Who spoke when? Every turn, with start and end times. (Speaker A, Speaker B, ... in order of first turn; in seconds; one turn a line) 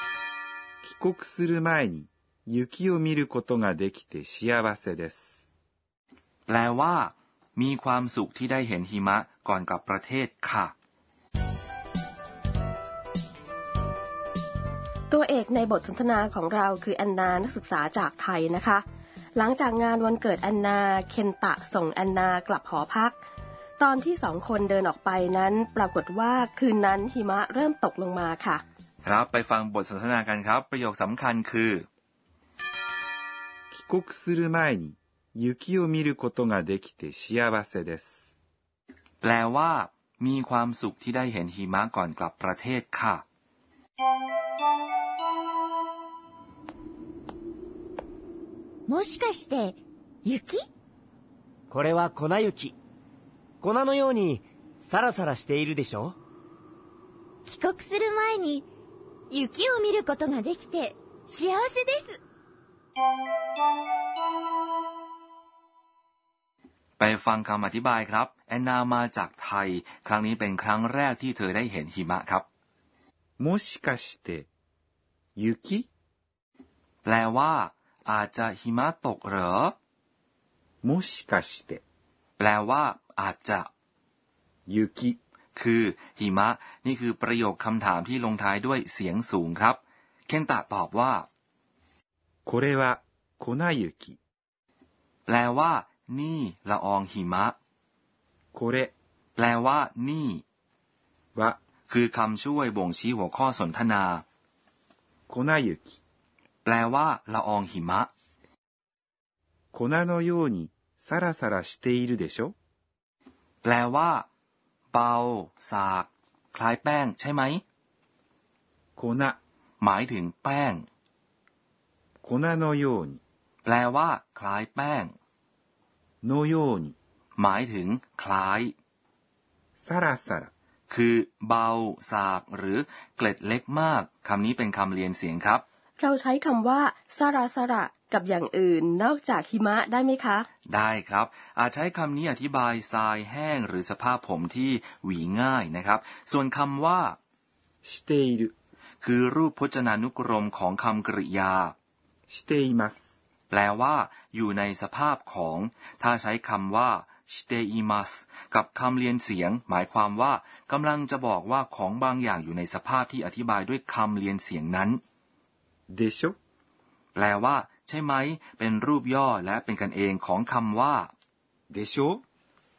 Speaker A: 0.8-5.3
Speaker B: 6.5-10.7
Speaker C: 15.1-18.8
Speaker C: 19.4-23.2
Speaker C: 23.8-28.6
Speaker B: 29.0-31.9
Speaker A: 33.7-38.2
Speaker B: 39.2-43.2
Speaker D: 48.9-50.7
Speaker E: 51.7-52.8
Speaker E: 53.6-56.2
Speaker D: 57.5-58.7
Speaker D: 59.3-62.2
Speaker B: 67.0-72.5
Speaker A: 73.4-74.5
Speaker A: 75.4-75.9
Speaker B: 77.0-79.8
Speaker A: 80.8-81.8
Speaker B: 82.4-83.7
Speaker A: 84.7-85.2
Speaker B: 85.6-91.3
Speaker A: 92.5-94.2
Speaker B: 95.3-97.5
Speaker A: 98.5-98.9
Speaker B: 99.4-100.4
Speaker B: 101.9-104.2
Speaker A: 105.3-106.0
Speaker B: 106.7-108.1
Speaker A: 109.7-112.5
Speaker B: 113.6-114.3
Speaker B: 114.9-117.6
Speaker A: 119.0-119.4
Speaker B: 119.8-120.8
Speaker A: 122.2-123.2
Speaker B: 123.7-125.1
Speaker A: 126.2-127.0
Speaker B: 127.4-128.7
Speaker A: 129.8-130.5
Speaker B: 130.9-135.6
Speaker C: 136.0-140.5
Speaker B: 140.7-147.2
Speaker A: 147.8-148.5
Speaker B: 149.0-151.7
Speaker A: 152.3-153.0
Speaker B: 153.5-165.0
Speaker A: 165.9-166.4
Speaker B: 167.2-171.1
Speaker A: 171.7-172.2